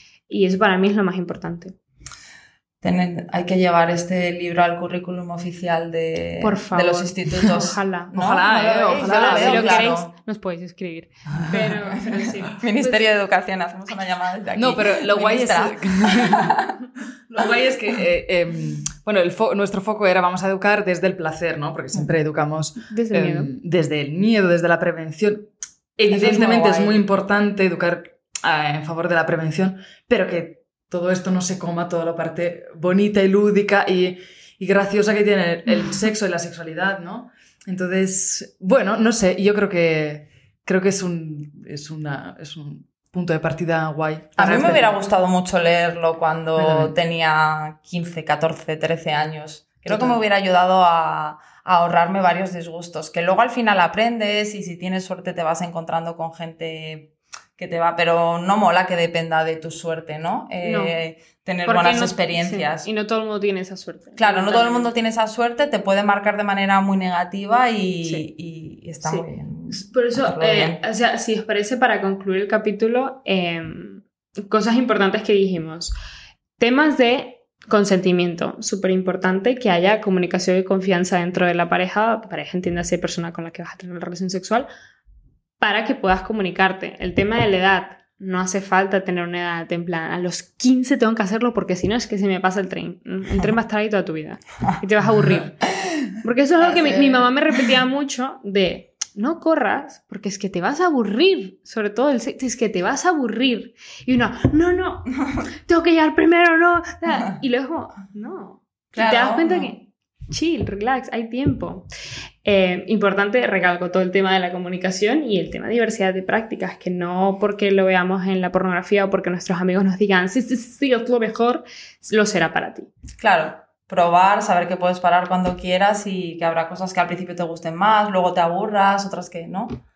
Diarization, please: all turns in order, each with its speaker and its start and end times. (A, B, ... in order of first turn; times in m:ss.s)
0:00.3-0:01.8 A
0:02.8-0:10.1 B
0:06.4-0:08.1 A
0:08.1-0:10.0 C
0:09.0-0:13.1 A
0:12.6-0:16.8 B
0:14.6-0:16.6 C
0:17.3-0:44.9 C
0:22.8-0:23.5 A
0:26.1-0:27.0 B
0:44.4-1:02.9 B
0:46.6-0:46.9 C
0:49.9-0:50.2 C
1:00.6-1:00.9 A
1:01.7-1:04.9 A
1:04.2-1:10.8 B
1:09.0-1:15.9 A
1:16.6-1:24.7 A
1:25.6-1:35.6 A
1:35.6-1:37.3 B
1:36.2-1:51.9 A
1:49.0-1:49.7 B
1:52.4-2:02.9 A
2:03.2-2:09.8 B